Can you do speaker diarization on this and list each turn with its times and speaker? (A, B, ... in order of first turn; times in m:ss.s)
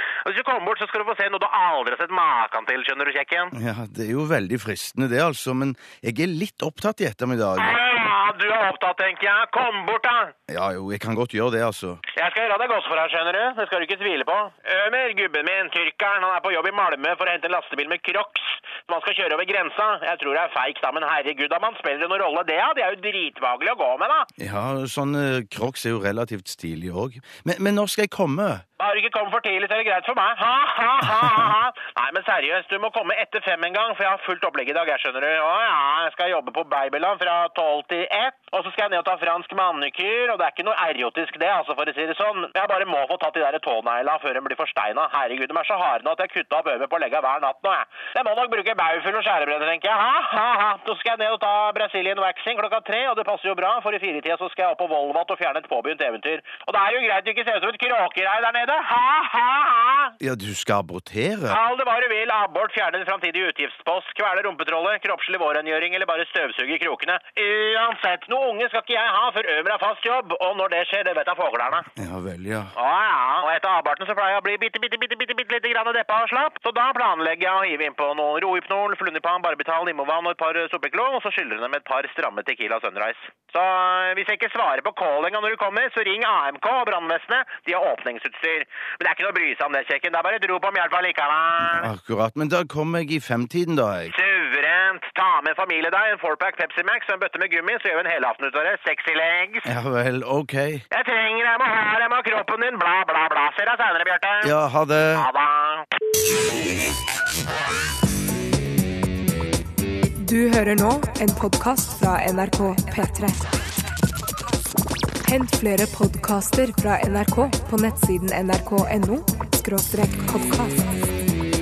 0:00.2-0:03.5 A
0:03.5-0:07.8 B
0:07.6-0:10.3 A
0:10.5-0:12.0 B
0:12.1-0:24.3 A
0:24.4-0:28.6 B
0:28.8-1:00.1 A
1:00.2-1:01.6 B
1:01.5-1:11.9 A
1:12.0-1:12.7 B
1:12.7-1:31.9 A
1:31.6-1:34.1 B
1:34.1-1:39.7 A
1:39.6-1:40.8 B
1:40.9-1:44.5 A
1:44.4-1:45.3 B
1:45.1-1:45.8 A
1:50.2-1:53.4 C
1:55.2-2:00.9 C